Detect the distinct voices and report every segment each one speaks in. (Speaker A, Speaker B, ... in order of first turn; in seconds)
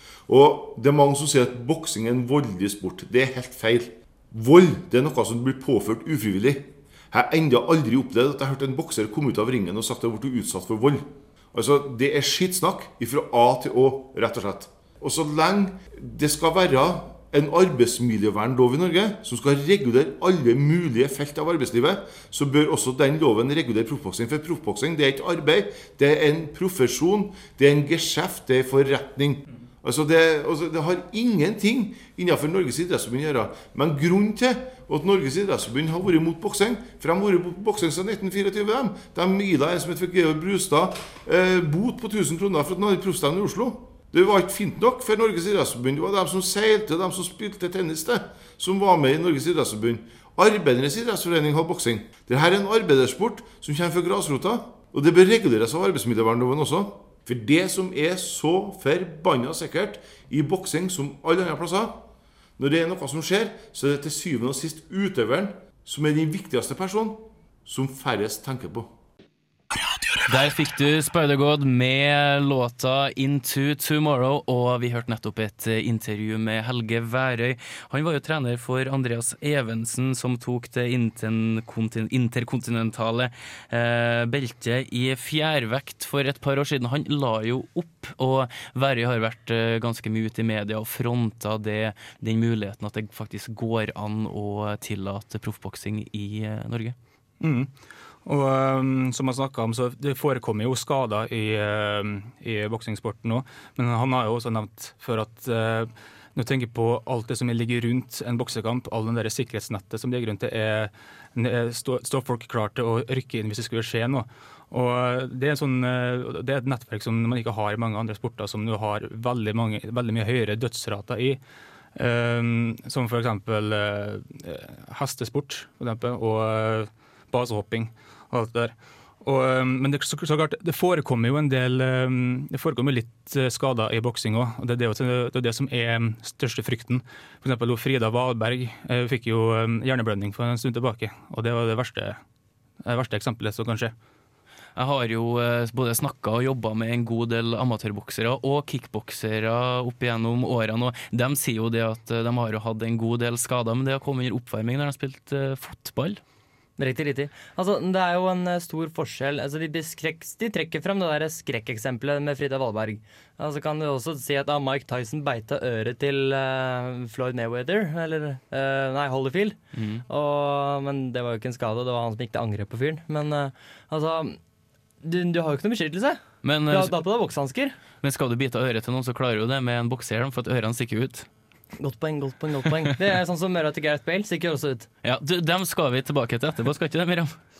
Speaker A: 0.3-62.0, 62.6-68.9
Speaker B: 70.2-97.0, 144.8-156.2, 169.7-170.0, 176.4-176.9, 178.0-181.3, 185.0-187.4
Speaker C: 97.4-97.7, 98.2-121.4, 121.9-142.2, 142.8-143.9
Speaker D: 156.8-169.6, 170.1-174.4, 175.0-177.8, 181.8-184.9